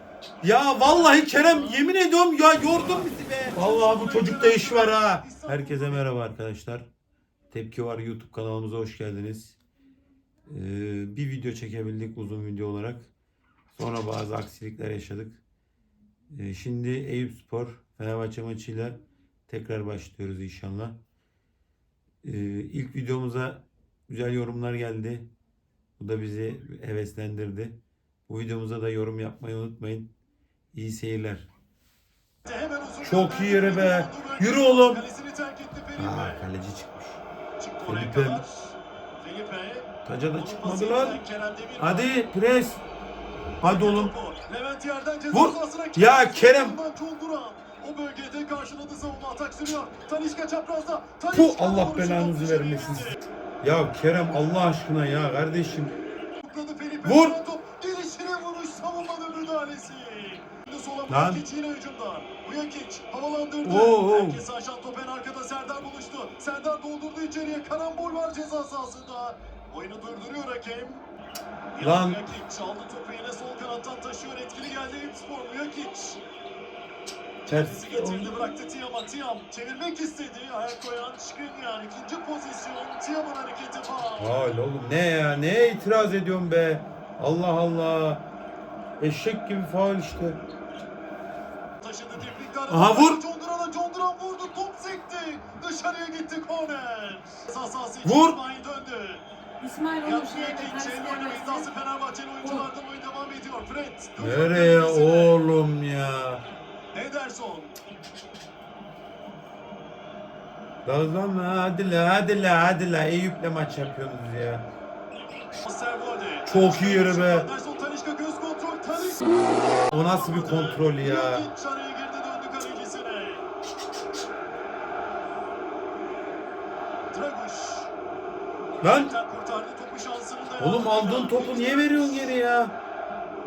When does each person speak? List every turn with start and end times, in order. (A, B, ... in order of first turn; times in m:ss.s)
0:00.4-0:06.9 A
0:00.8-0:01.8 B
0:02.6-0:06.0 B
0:07.5-0:09.5 A
0:10.5-0:13.1 A
0:13.7-0:15.4 A
0:16.3-0:21.0 A
0:22.2-0:25.3 A
0:26.0-0:27.7 A
0:28.3-0:30.1 A
0:30.7-0:31.4 A
0:32.4-0:36.4 B
0:33.0-0:35.0 A
0:36.0-0:37.2 A
0:37.6-0:42.2 B
0:37.9-0:38.4 A
0:40.0-0:41.2 A
0:41.8-0:42.8 A
0:43.6-0:44.1 A
0:43.6-0:53.2 B
0:45.3-0:46.8 A
0:51.3-0:55.9 A
0:56.4-1:11.1 B
0:57.0-0:57.4 A
1:01.1-1:01.4 A
1:03.6-1:04.4 A
1:11.7-1:16.2 B
1:11.8-1:12.2 A
1:17.4-1:24.4 B
1:17.5-1:18.3 A
1:24.2-1:28.2 A
1:29.0-1:30.4 A
1:31.8-1:39.2 B
1:32.7-1:33.2 A
1:38.0-1:38.4 A
1:39.6-1:41.7 C
1:40.0-1:45.4 B
1:44.2-1:46.4 A
1:46.9-1:47.7 B
1:50.8-1:54.6 A
1:55.6-1:59.3 B
1:56.5-1:57.5 A
1:59.9-2:03.5 B
1:59.9-2:01.4 A
2:07.1-2:07.9 B
2:08.8-2:12.3 B
2:08.8-2:09.1 A
2:10.6-2:12.7 A